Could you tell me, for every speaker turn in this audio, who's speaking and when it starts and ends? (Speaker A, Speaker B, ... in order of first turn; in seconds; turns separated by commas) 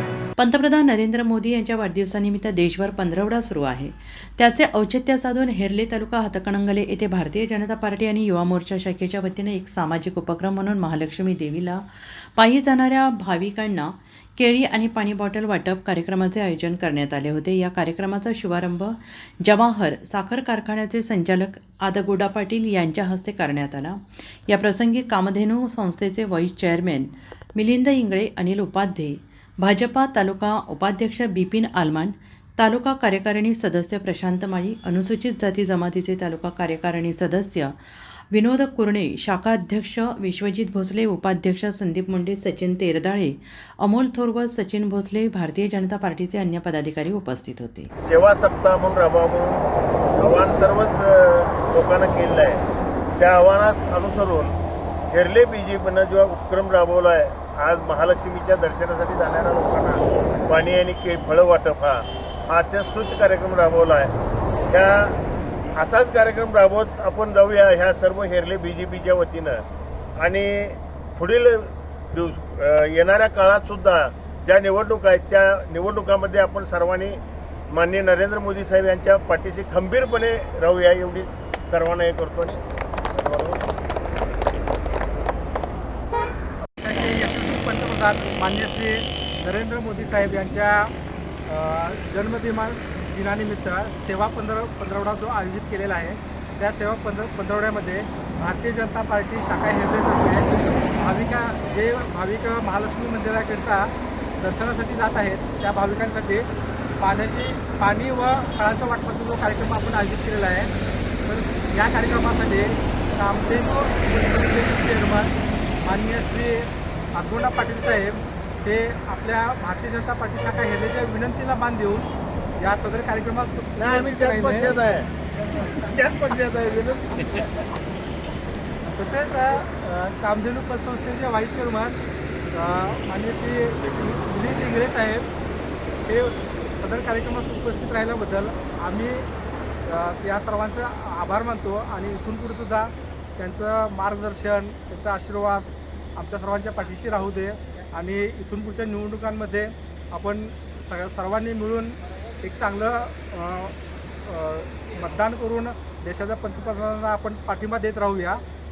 Speaker A: 0.4-47.9, Speaker B: 48.0-49.7, Speaker B: 50.2-52.6, Speaker B: 53.2-54.5, Speaker B: 55.1-64.1, Speaker B: 64.7-65.2, Speaker B: 65.8-69.6, Speaker B: 70.2-77.2, Speaker B: 77.7-83.7, Speaker C: 86.7-90.9, Speaker C: 91.5-103.9, Speaker C: 104.4-106.5, Speaker C: 107.0-110.7, Speaker C: 111.2-115.3, Speaker C: 115.8-124.8, Speaker B: 123.8-125.1, Speaker C: 125.3-125.7, Speaker B: 125.7-127.5, Speaker C: 128.8-132.0, Speaker C: 132.5-135.3, Speaker C: 136.1-139.3, Speaker C: 139.9-158.4